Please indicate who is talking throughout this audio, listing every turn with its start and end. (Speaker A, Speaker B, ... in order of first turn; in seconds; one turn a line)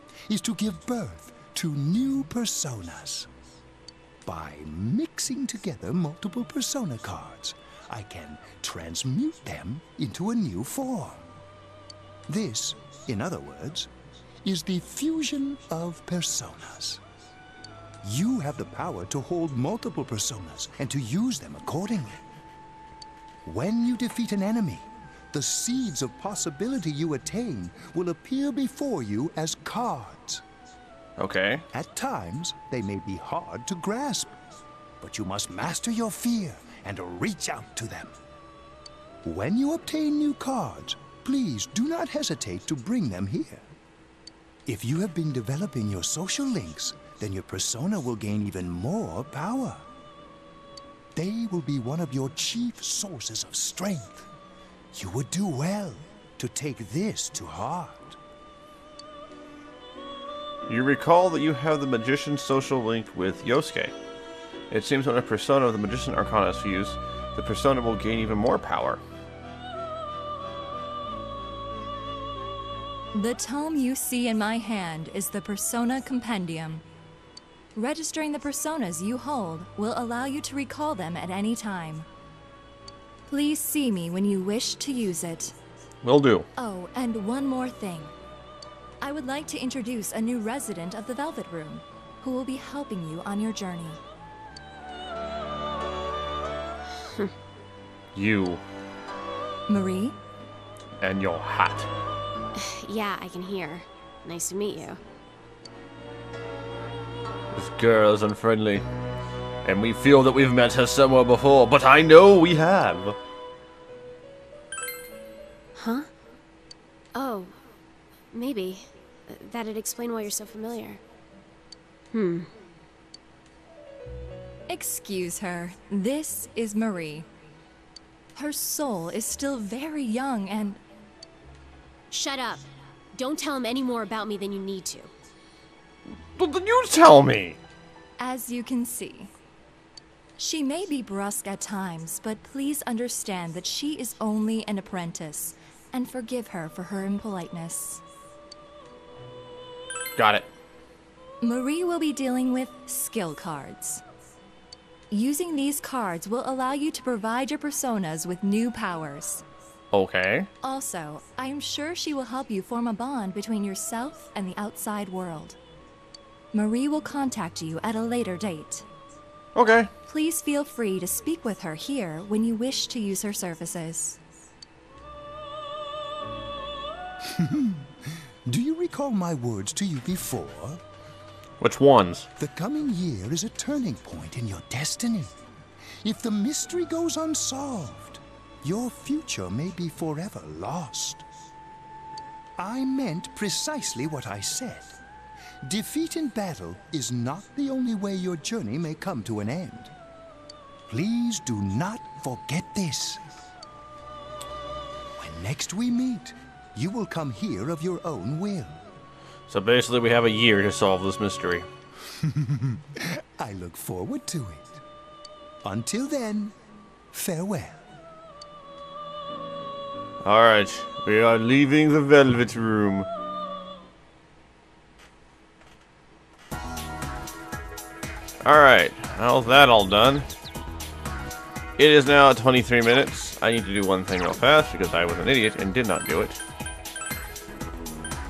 Speaker A: 0.3-3.3
Speaker A: 4.2-11.3
Speaker A: 12.3-13.9
Speaker A: 14.4-17.0
Speaker A: 18.0-22.2
Speaker A: 23.4-30.4
Speaker B: 31.2-31.7
Speaker A: 31.7-34.4
Speaker A: 35.0-38.1
Speaker A: 39.2-43.7
Speaker A: 44.7-49.9
Speaker A: 51.1-54.3
Speaker A: 54.9-58.2
Speaker B: 60.7-64.0
Speaker B: 64.7-69.0
Speaker C: 73.1-76.8
Speaker C: 77.8-82.1
Speaker C: 83.3-85.5
Speaker B: 86.0-86.5
Speaker C: 86.6-88.1
Speaker C: 89.0-94.0
Speaker B: 98.1-98.6
Speaker C: 99.7-100.2
Speaker B: 101.0-101.9
Speaker D: 102.6-105.0
Speaker B: 107.5-108.9
Speaker B: 109.7-113.2
Speaker D: 115.8-116.1
Speaker D: 117.2-117.5
Speaker D: 118.3-121.0
Speaker D: 122.1-122.5
Speaker C: 124.7-127.3
Speaker C: 128.3-130.8
Speaker D: 132.1-135.1
Speaker B: 136.4-137.6
Speaker C: 138.2-139.3
Speaker C: 140.4-148.0
Speaker B: 150.2-150.5
Speaker C: 151.4-154.0
Speaker C: 155.1-159.4
Speaker B: 159.9-160.5
Speaker C: 160.6-165.6
Speaker C: 166.5-168.9
Speaker B: 169.6-169.9
Speaker C: 170.1-174.2
Speaker A: 177.2-180.8
Speaker B: 181.6-182.3
Speaker A: 182.4-185.4
Speaker A: 186.0-191.3
Speaker A: 192.6-195.0
Speaker A: 195.6-199.9
Speaker A: 200.9-203.2
Speaker A: 205.2-208.8
Speaker B: 209.5-211.7
Speaker A: 212.2-214.8
Speaker A: 215.6-216.6
Speaker A: 217.1-217.8
Speaker B: 220.2-223.1
Speaker B: 228.4-230.3
Speaker B: 231.8-236.4